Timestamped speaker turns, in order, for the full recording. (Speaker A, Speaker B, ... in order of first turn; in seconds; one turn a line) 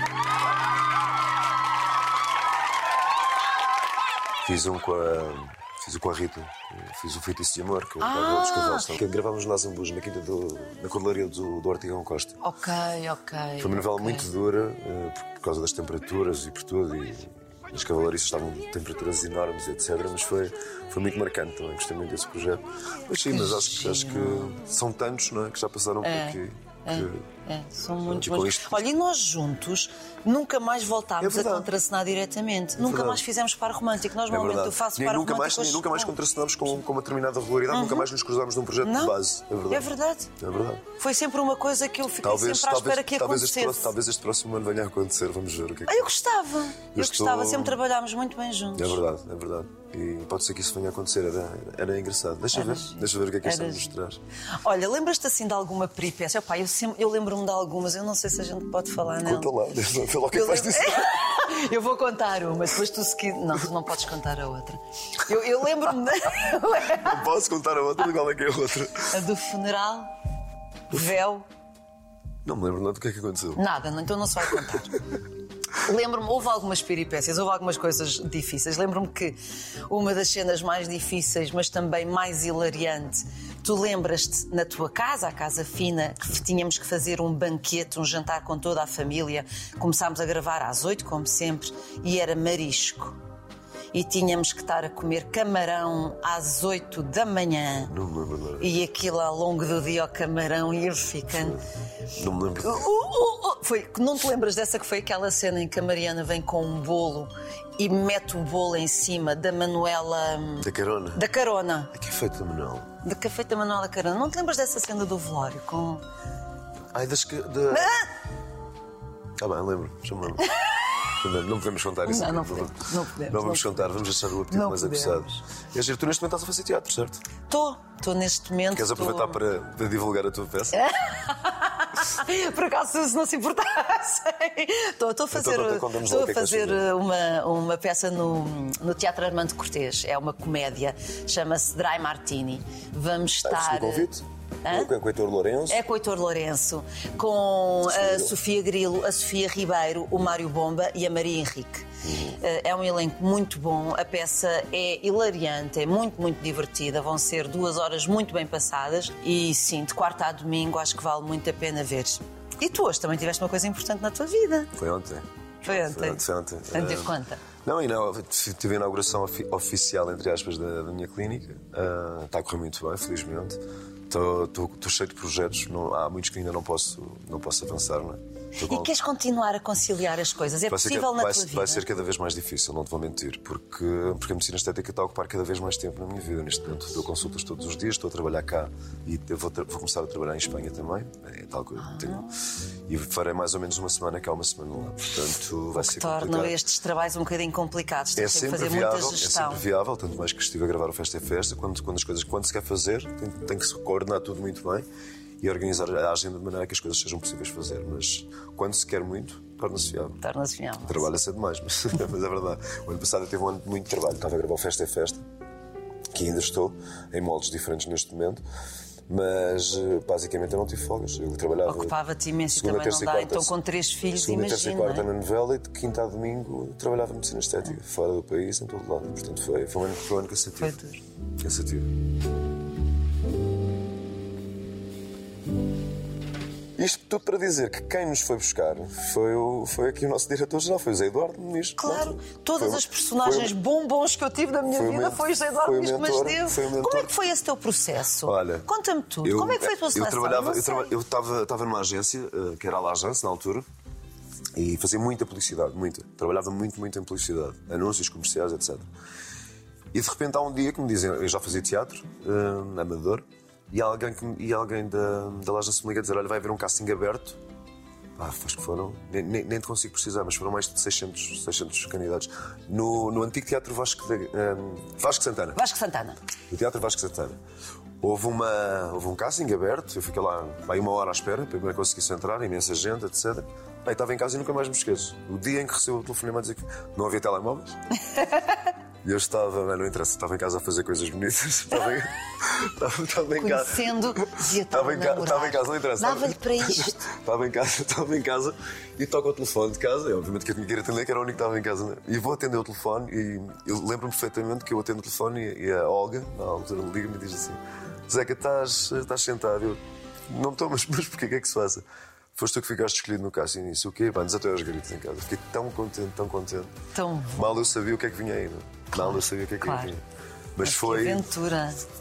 Speaker A: 4.4-12.4
Speaker B: 8.0-8.9
Speaker B: 12.4-14.3
Speaker A: 13.6-27.2
Speaker B: 23.3-24.5
Speaker B: 26.0-36.1
Speaker A: 28.0-28.9
Speaker A: 31.2-31.7
Speaker A: 32.8-33.2
Speaker A: 34.2-40.8
Speaker B: 37.7-38.1
Speaker B: 38.8-39.2
Speaker B: 39.7-40.3
Speaker B: 41.0-43.9
Speaker A: 42.2-46.1
Speaker B: 45.9-49.0
Speaker A: 46.9-47.8
Speaker A: 48.8-54.2
Speaker B: 52.5-53.9
Speaker B: 54.6-59.5
Speaker A: 59.2-61.2
Speaker B: 60.3-67.2
Speaker A: 66.8-69.2
Speaker B: 69.1-70.1
Speaker B: 70.9-71.4
Speaker A: 72.4-73.6
Speaker B: 73.5-75.0
Speaker B: 75.8-79.4
Speaker B: 79.9-93.2
Speaker B: 93.9-97.9
Speaker A: 97.8-98.8
Speaker B: 98.6-101.6
Speaker A: 101.3-101.6
Speaker A: 102.1-102.9
Speaker B: 102.6-111.9
Speaker A: 110.6-111.2
Speaker A: 111.9-112.9
Speaker B: 113.0-116.0
Speaker A: 116.9-118.0
Speaker B: 117.7-118.0
Speaker A: 119.4-120.5
Speaker A: 121.2-127.2
Speaker B: 122.0-123.9
Speaker B: 124.5-125.4
Speaker B: 127.5-129.4
Speaker A: 128.7-130.8
Speaker B: 130.7-144.1
Speaker A: 135.3-136.8
Speaker A: 143.4-145.8
Speaker B: 144.6-144.9
Speaker B: 145.7-151.9
Speaker A: 147.8-148.3
Speaker A: 152.0-152.4
Speaker B: 152.4-164.7
Speaker A: 164.8-178.9
Speaker B: 165.6-167.4
Speaker B: 178.6-181.8
Speaker A: 180.7-192.2
Speaker B: 191.8-192.3
Speaker A: 192.8-196.6
Speaker B: 195.7-199.6
Speaker A: 198.2-204.8
Speaker A: 205.4-210.2
Speaker B: 210.2-211.1
Speaker A: 210.8-215.2
Speaker A: 216.1-218.4
Speaker A: 219.1-222.0
Speaker B: 221.7-225.1
Speaker A: 222.5-223.5
Speaker A: 224.1-230.8
Speaker B: 230.6-231.0
Speaker A: 231.4-231.9
Speaker A: 236.8-243.6
Speaker B: 241.8-250.9
Speaker A: 244.7-247.1
Speaker A: 248.2-248.7
Speaker A: 249.2-253.7
Speaker A: 254.5-258.9
Speaker A: 259.9-267.4
Speaker A: 268.2-275.6
Speaker B: 275.6-276.2
Speaker A: 276.5-277.4
Speaker A: 278.0-287.8
Speaker A: 289.0-311.8
Speaker B: 293.4-297.0
Speaker A: 312.3-316.7
Speaker B: 316.9-317.5
Speaker A: 317.3-320.0
Speaker B: 318.9-319.9
Speaker A: 320.6-321.2
Speaker B: 320.6-321.8